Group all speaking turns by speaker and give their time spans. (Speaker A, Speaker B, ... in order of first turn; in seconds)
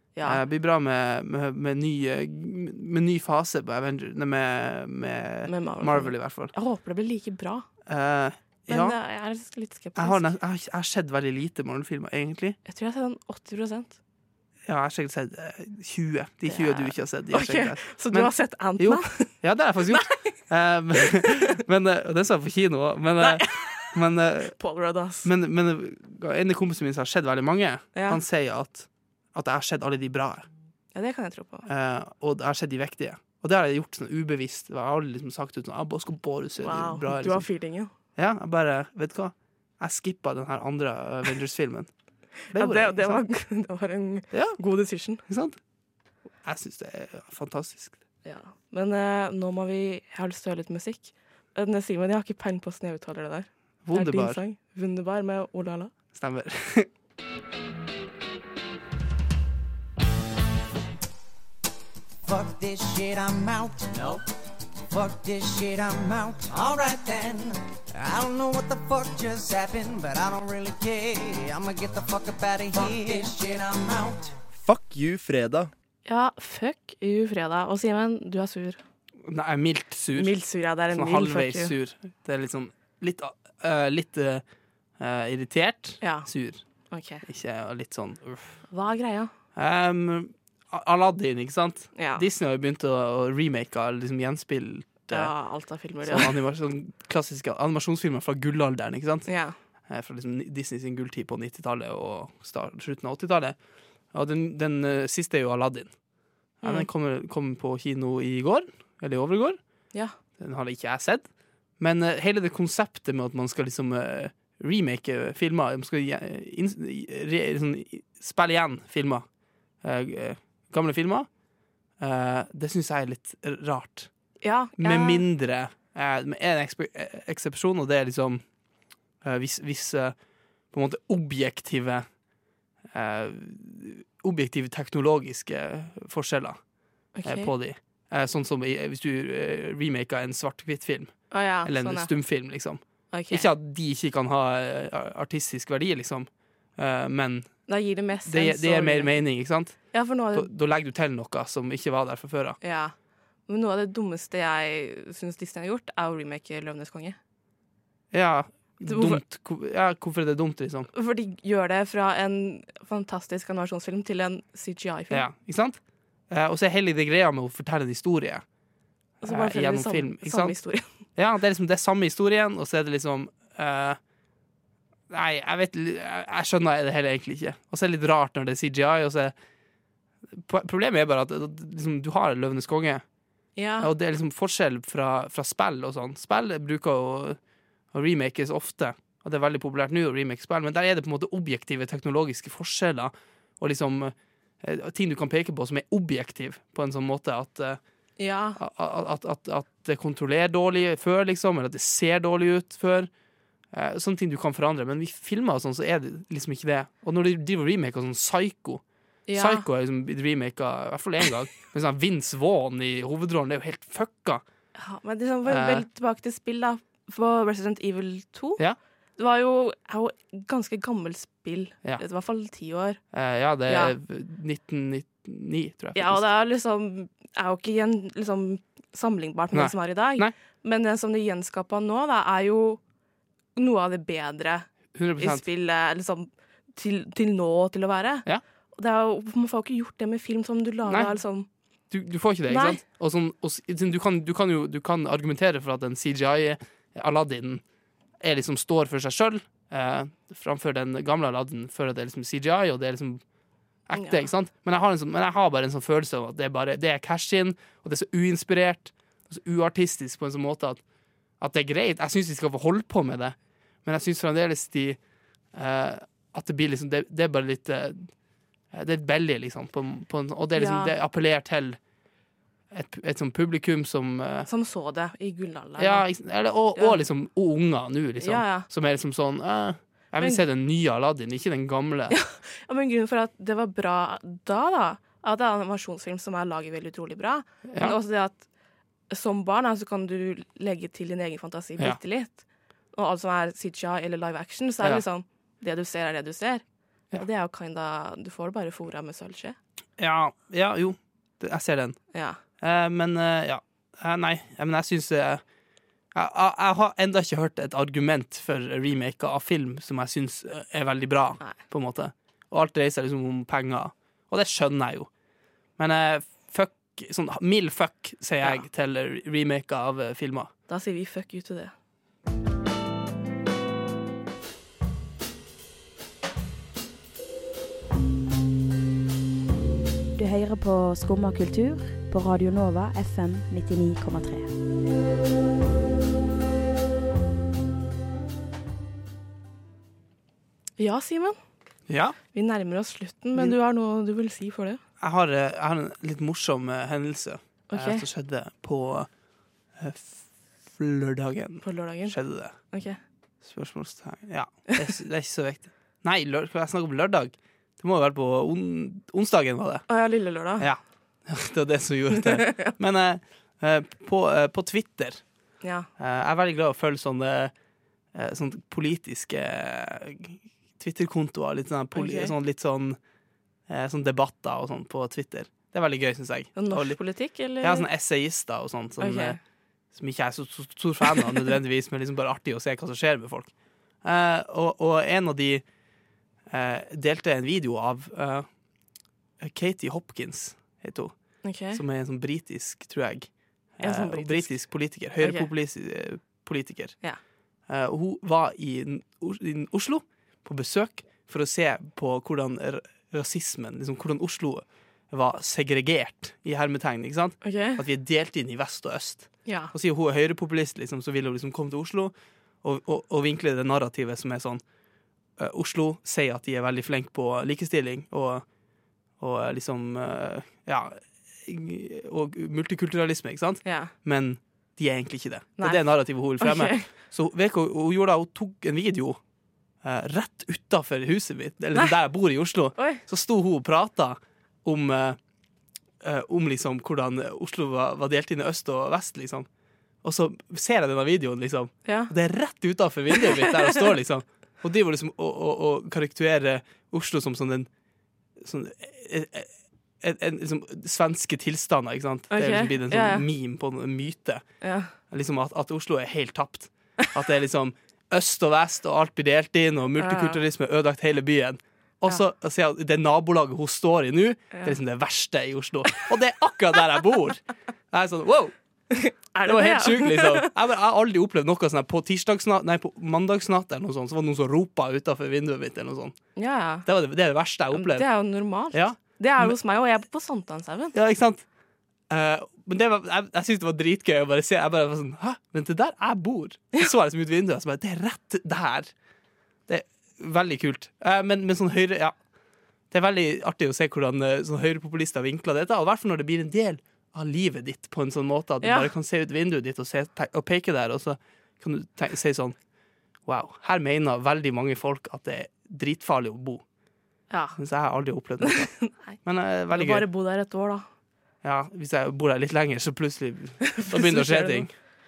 Speaker A: 0.1-0.4, 5.5-7.7, 8.7-10.3, 12.7-14.0, 16.5-19.3, 19.9-20.4, 21.1-21.6, 23.2-25.3, 27.9-28.2, 30.9-31.7, 36.6-37.9, 42.5-45.2, 48.2-55.9, 76.0-78.8, 80.1-81.7, 86.0-86.3, 86.9-87.2, 88.7-89.3, 91.9-92.2, 95.1-96.3, 99.3-99.5, 106.6-106.9, 124.4-125.2, 137.2-137.5, 141.3-142.1, 143.1-143.5, 147.7-149.2, 149.9-150.5, 152.6-152.9, 153.5-157.2, 158.8-159.2, 160.9-165.2, 169.2-170.8, 183.6-183.9, 198.2-198.6, 209.3-209.7, 214.7-218.6, 219.2-223.0, 223.7-223.9, 225.9-232.8, 233.6-241.5, 242.5-242.8, 253.9-254.3, 270.5-271.0, 274.4-276.1, 276.7-277.0, 278.2-278.7, 280.2-280.4, 282.1-288.4, 289.1-299.6, 302.1-302.4, 320.7-321.7, 340.8-341.4, 342.3-344.8, 347.7-348.1, 351.6-353.0, 359.9-360.7, 362.1-362.8, 365.6-365.9, 371.9-372.3, 376.6-377.9, 379.0-379.4, 391.4-391.8, 393.8-394.6, 395.2-395.5, 407.4-407.8, 409.4-409.7, 423.6-423.9, 425.6-425.8, 426.4-426.9, 432.8-433.0, 441.9-442.1, 443.1-443.8, 452.3-453.2, 454.6-454.9, 460.0-460.4, 464.5-464.8, 468.9-470.5, 476.4-476.9, 477.7-480.9, 498.6-498.9, 507.3-507.6, 508.4-509.2, 509.7-510.9, 513.6-514.7
Speaker B: 0.2-6.5, 7.9-9.0, 9.9-12.6, 14.7-24.5, 25.2-30.5, 31.6-37.5, 38.1-41.9, 42.5-43.2, 44.3-44.6, 45.2-45.6, 46.4-48.0, 53.8-54.4, 56.1-56.9, 74.7-75.7, 79.2-80.4, 80.9-84.4, 85.0-86.6, 87.2-88.6, 89.5-95.3, 96.0-99.3, 99.9-103.5, 104.1-105.9, 106.6-109.6, 110.4-111.3, 111.8-119.2, 119.8-121.3, 122.0-124.1, 124.8-128.4, 129.2-130.1, 130.7-132.1, 132.9-136.6, 137.2-147.5, 148.2-149.8, 150.3-152.6, 158.1-160.9, 165.1-165.8, 166.3-168.4, 169.2-170.5, 171.2-174.0, 175.1-179.3, 180.3-183.0, 183.8-187.4, 187.9-197.8, 198.6-203.1, 203.7-208.8, 209.3-214.4, 215.4-215.8, 223.1-226.3, 229.5-230.3, 234.9-235.4, 240.8-241.1, 241.9-247.6, 248.2-253.2, 253.9-260.8, 261.4-265.0, 265.5-268.1, 268.7-271.8, 272.7-274.5, 275.8-282.2, 287.7-287.9, 300.0-302.0, 302.6-305.4, 306.1-315.1, 315.8-320.5, 341.9-342.2, 345.0-349.1, 349.8-352.6, 353.4-359.9, 360.6-365.2, 366.0-367.5, 368.1-373.0, 373.7-377.0, 377.6-379.4, 379.9-383.5, 384.0-385.6, 386.5-388.5, 389.4-391.1, 391.7-397.0, 397.7-414.6, 415.4-418.4, 419.2-429.2, 429.8-435.2, 436.0-439.5, 440.0-447.7, 448.4-454.4, 455.1-468.5, 469.4-476.2, 476.8-478.1, 478.7-479.6, 480.9-481.4, 482.1-488.9, 489.7-492.1, 492.9-502.6, 503.2-506.6, 507.6-508.7, 509.2-510.1, 511.4-514.7
Speaker C: 62.2-64.2, 64.9-74.4
Speaker D: 330.1-334.5